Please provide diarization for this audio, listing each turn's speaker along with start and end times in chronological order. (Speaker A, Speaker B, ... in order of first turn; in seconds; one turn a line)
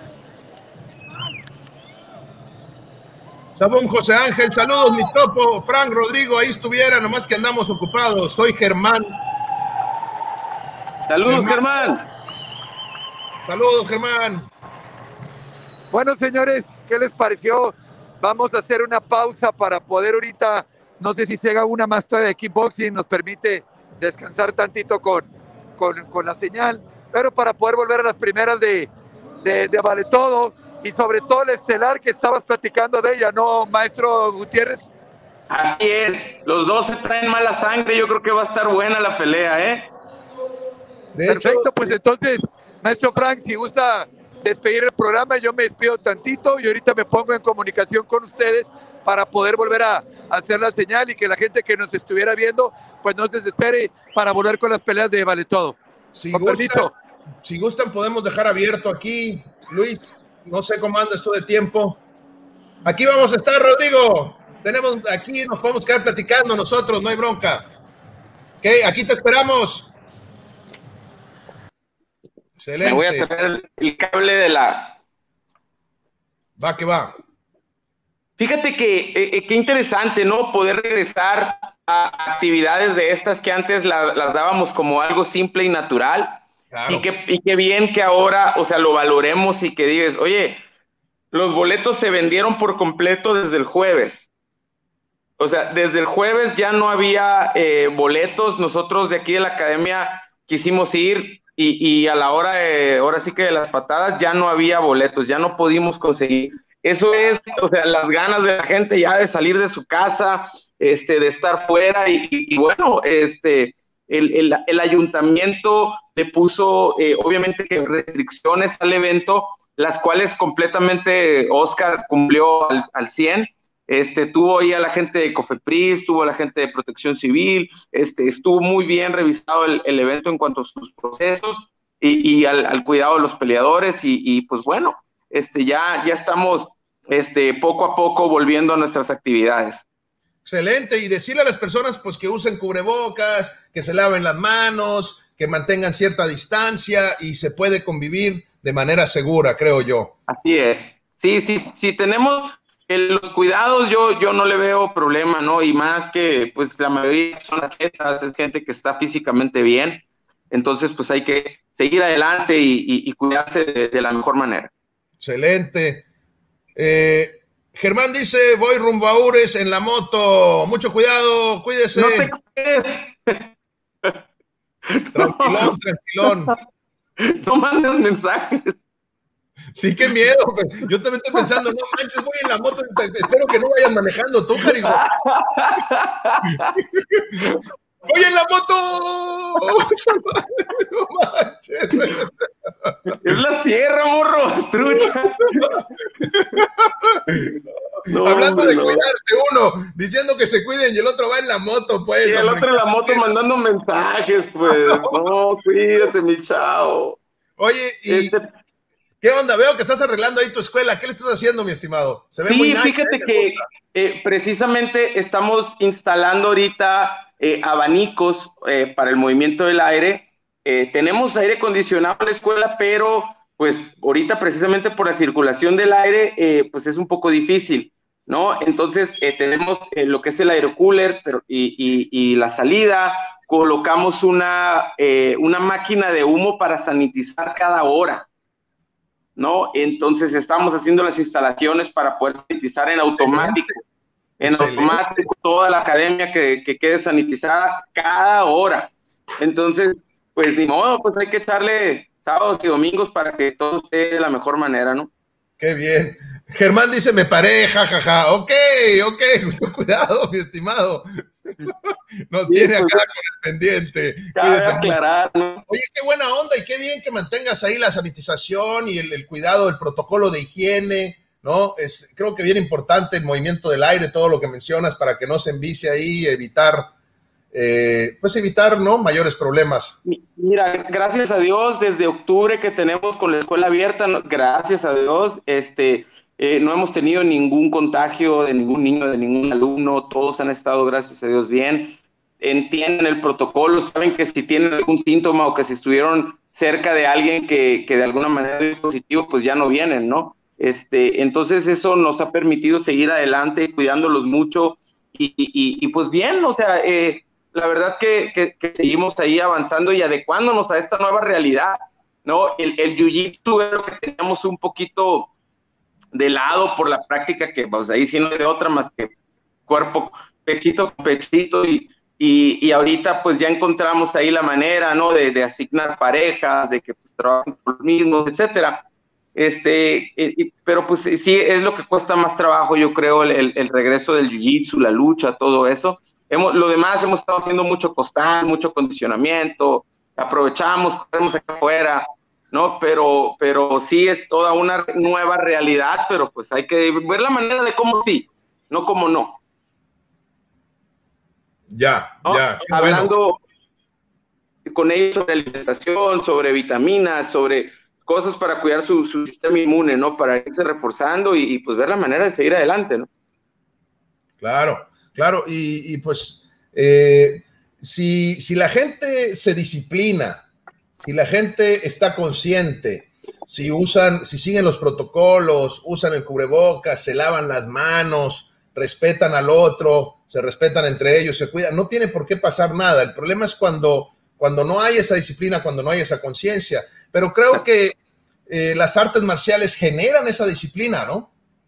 Speaker A: 3.6-9.2
Speaker B: 11.1-12.1
Speaker A: 11.3-11.7
Speaker A: 13.4-14.5
Speaker C: 15.9-28.9
Speaker C: 29.4-34.9
Speaker B: 35.5-39.9
Speaker A: 41.1-42.0
Speaker C: 41.3-55.8
Speaker A: 56.1-56.9
Speaker C: 56.3-56.9
Speaker A: 57.4-62.0
Speaker A: 62.9-67.7
Speaker A: 68.6-69.9
Speaker A: 72.6-73.3
Speaker B: 72.8-75.0
Speaker A: 76.6-77.2
Speaker B: 78.4-90.6
Speaker A: 86.7-87.1
Speaker B: 91.3-94.3
Speaker B: 95.4-139.9
Speaker A: 140.4-150.1
Speaker B: 150.3-164.7
Speaker A: 165.2-166.1
Speaker A: 166.8-172.3
Speaker B: 171.9-173.5
Speaker B: 174.9-176.5
Speaker A: 175.1-176.6
Speaker B: 177.2-178.8
Speaker A: 179.7-185.0
Speaker B: 184.7-186.8
Speaker A: 186.5-187.4
Speaker A: 188.1-193.4
Speaker B: 193.1-195.8
Speaker A: 194.9-197.6
Speaker B: 198.1-199.1
Speaker A: 198.2-203.3
Speaker B: 202.2-207.2
Speaker A: 204.7-205.3
Speaker A: 207.6-208.3
Speaker B: 208.1-208.5
Speaker A: 209.2-213.6
Speaker B: 212.5-238.3
Speaker B: 239.4-243.8
Speaker A: 243.2-243.7
Speaker B: 244.4-255.1
Speaker A: 244.4-245.3
Speaker A: 255.6-265.0
Speaker B: 262.5-263.0
Speaker B: 264.4-265.6
Speaker A: 265.7-276.9
Speaker A: 277.5-280.0
Speaker B: 280.1-315.3
Speaker B: 316.1-319.1
Speaker B: 319.7-328.8
Speaker B: 329.4-349.4
Speaker A: 351.7-353.1
Speaker B: 352.2-353.4
Speaker B: 354.7-363.1
Speaker A: 364.4-370.4
Speaker A: 371.0-388.0
Speaker A: 388.5-391.3